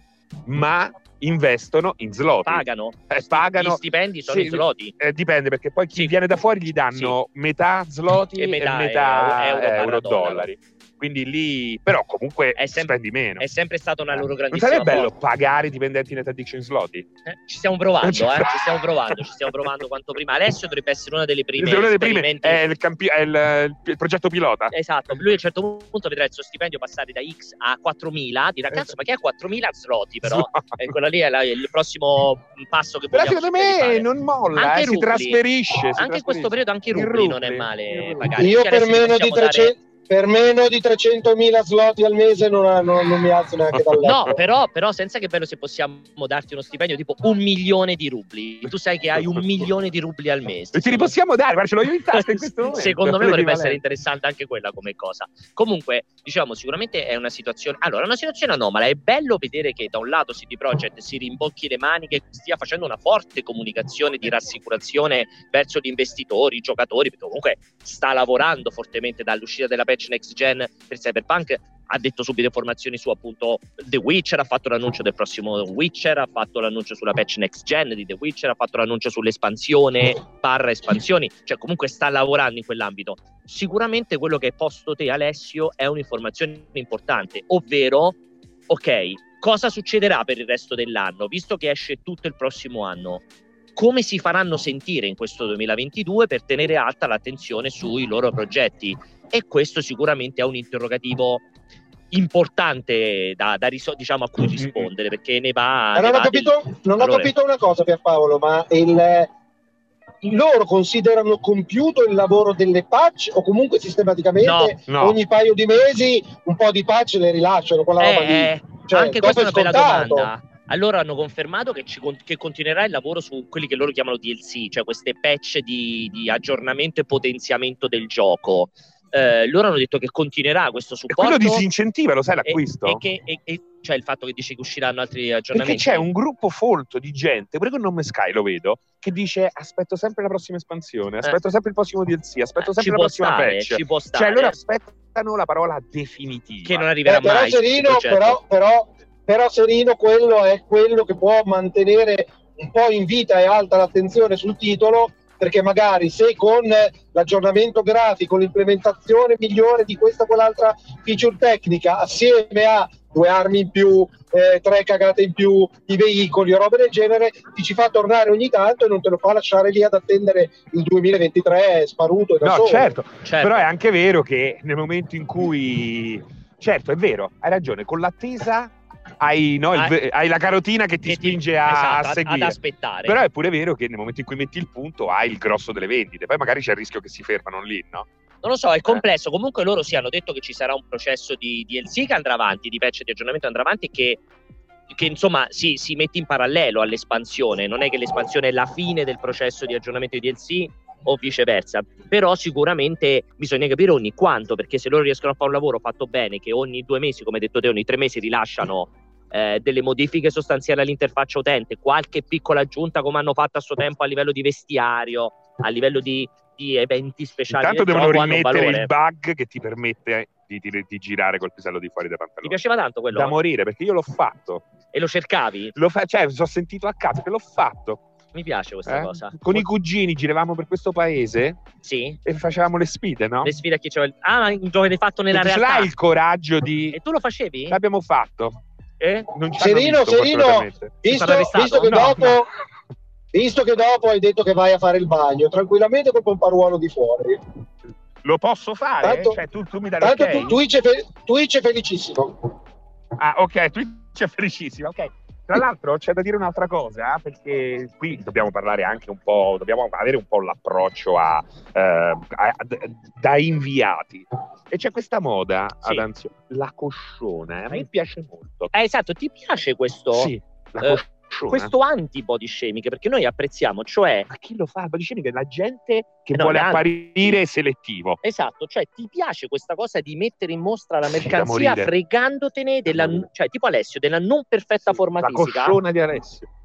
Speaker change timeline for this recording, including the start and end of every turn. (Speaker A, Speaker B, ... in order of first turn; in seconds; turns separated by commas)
Speaker A: 0.4-13.4, Speaker B: 2.5-4.9, Speaker B: 8.4-10.5, Speaker B: 12.6-15.1, Speaker A: 14.1-17.1, Speaker B: 17.2-22.6, Speaker A: 18.0-18.7, Speaker A: 21.6-24.7, Speaker B: 24.7-35.4, Speaker A: 30.2-30.9, Speaker A: 33.1-38.3, Speaker B: 36.0-39.7, Speaker C: 38.4-44.4, Speaker A: 43.7-44.3, Speaker B: 44.0-51.1, Speaker A: 48.6-49.7, Speaker A: 50.7-53.8, Speaker B: 52.1-88.2, Speaker B: 88.7-93.2, Speaker B: 93.8-101.4, Speaker B: 102.1-107.3, Speaker A: 104.4-104.9, Speaker C: 105.9-109.3, Speaker C: 110.2-120.3, Speaker B: 114.4-114.8, Speaker A: 114.9-115.2, Speaker B: 118.0-131.6, Speaker A: 131.1-133.0, Speaker B: 132.4-136.1, Speaker A: 135.5-146.9, Speaker B: 142.6-144.6, Speaker B: 146.6-148.4, Speaker C: 147.1-172.9, Speaker A: 172.4-188.1, Speaker B: 173.2-173.7, Speaker B: 181.0-183.2, Speaker B: 188.4-194.2, Speaker B: 194.9-218.9, Speaker A: 217.5-222.6, Speaker B: 222.4-223.3, Speaker A: 223.1-224.6, Speaker B: 224.9-225.7, Speaker A: 225.7-228.0, Speaker B: 228.3-229.7, Speaker A: 228.8-231.6, Speaker B: 231.8-232.2, Speaker A: 232.2-233.5, Speaker B: 233.4-235.9, Speaker A: 235.3-237.0, Speaker B: 236.9-237.8, Speaker A: 237.7-238.6, Speaker B: 239.0-239.3, Speaker A: 239.3-240.9, Speaker C: 239.6-242.5, Speaker B: 241.1-242.3, Speaker A: 241.9-242.3, Speaker C: 243.3-247.4, Speaker A: 248.2-250.6, Speaker C: 249.0-249.4, Speaker C: 250.0-252.6, Speaker A: 253.2-268.7, Speaker B: 268.7-274.3, Speaker A: 270.1-271.7, Speaker A: 274.3-278.2, Speaker B: 276.3-277.4, Speaker B: 278.2-285.8, Speaker A: 281.1-281.9, Speaker A: 282.9-283.3, Speaker A: 284.9-286.5